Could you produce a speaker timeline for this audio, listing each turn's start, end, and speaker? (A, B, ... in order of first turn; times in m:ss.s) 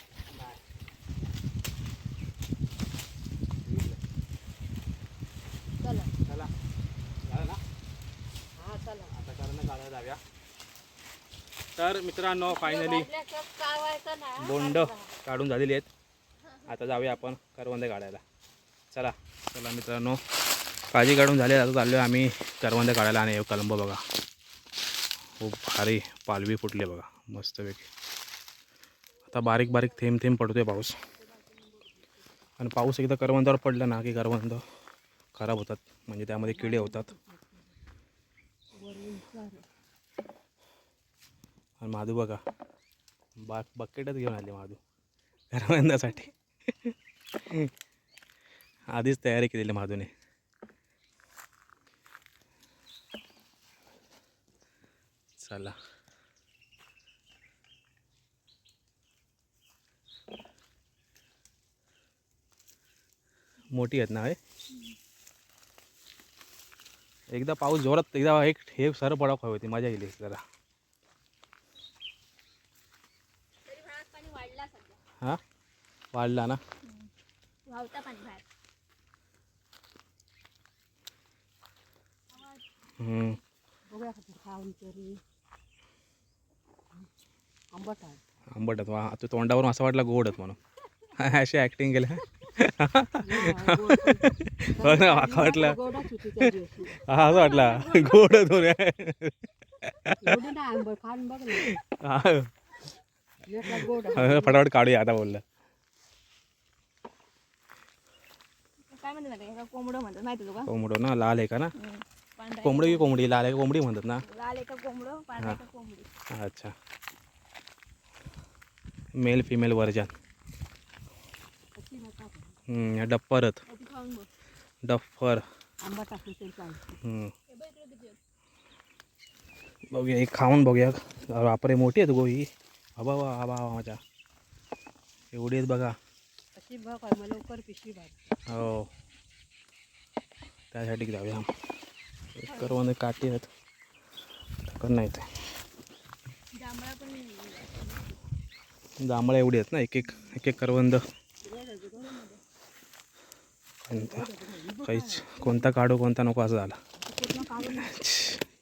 0:00.3-0:00.6 A
0:03.6-0:04.0 A
0:05.8-0:06.1 B
0:06.2-0:06.5 A
0:07.2-0:07.6 A
0:08.6-0:09.1 B
0:09.1-0:10.2 A
0:11.8-0:13.1 A
0:12.5-0:15.1 B
0:14.4-0:15.9 A
0:16.6-0:18.2 A
0:18.9-0:20.2 A
0:20.9-0:24.0 A
0:25.4-0:27.9 A
0:29.3-0:31.0 A
0:29.4-0:30.0 C
0:31.6-0:32.0 B
0:32.6-0:34.6 A
0:35.4-0:37.1 A
0:36.4-0:37.8 B
0:38.7-0:39.6 B
0:41.8-0:42.4 A
0:43.4-0:44.8 A
0:45.5-0:47.7 A
0:48.9-0:50.1 A
0:55.4-0:55.7 A
1:03.7-1:04.4 A
1:04.7-1:05.0 C
1:07.3-1:10.4 A
1:13.6-1:15.0 C
1:16.1-1:16.6 A
1:16.8-1:17.1 C
1:17.6-1:18.4 C
1:22.3-1:22.6 C
1:23.0-1:23.4 A
1:23.9-1:25.2 B
1:27.7-1:28.2 B
1:28.5-1:30.6 A
1:31.1-1:40.4 A
1:33.2-1:37.0 B
1:37.2-1:38.4 C
1:40.2-1:41.7 B
1:41.6-1:42.5 A
1:43.4-1:44.6 B
1:44.1-1:45.4 A
1:48.9-1:50.7 C
1:50.6-1:51.7 A
1:51.8-1:53.1 C
1:52.6-1:54.2 A
1:54.2-1:56.1 C
1:56.3-1:56.7 A
1:59.2-2:00.1 A
2:01.7-2:02.6 B
2:02.7-2:03.6 A
2:03.7-2:04.3 C
2:04.8-2:05.4 A
2:05.8-2:07.0 B
2:07.0-2:07.3 A
2:07.5-2:08.2 C
2:09.9-2:14.0 A
2:15.3-2:15.9 A
2:16.5-2:18.4 B
2:18.5-2:18.9 A
2:20.7-2:21.5 A
2:22.4-2:23.5 A
2:22.5-2:22.8 C
2:24.7-2:25.2 A
2:26.5-2:28.1 C
2:29.0-2:31.0 A
2:31.4-2:32.2 B
2:31.9-2:32.4 C
2:33.8-2:34.2 A
2:33.9-2:35.7 B
2:34.8-2:36.8 A
2:37.0-2:37.9 B
2:37.7-2:38.4 A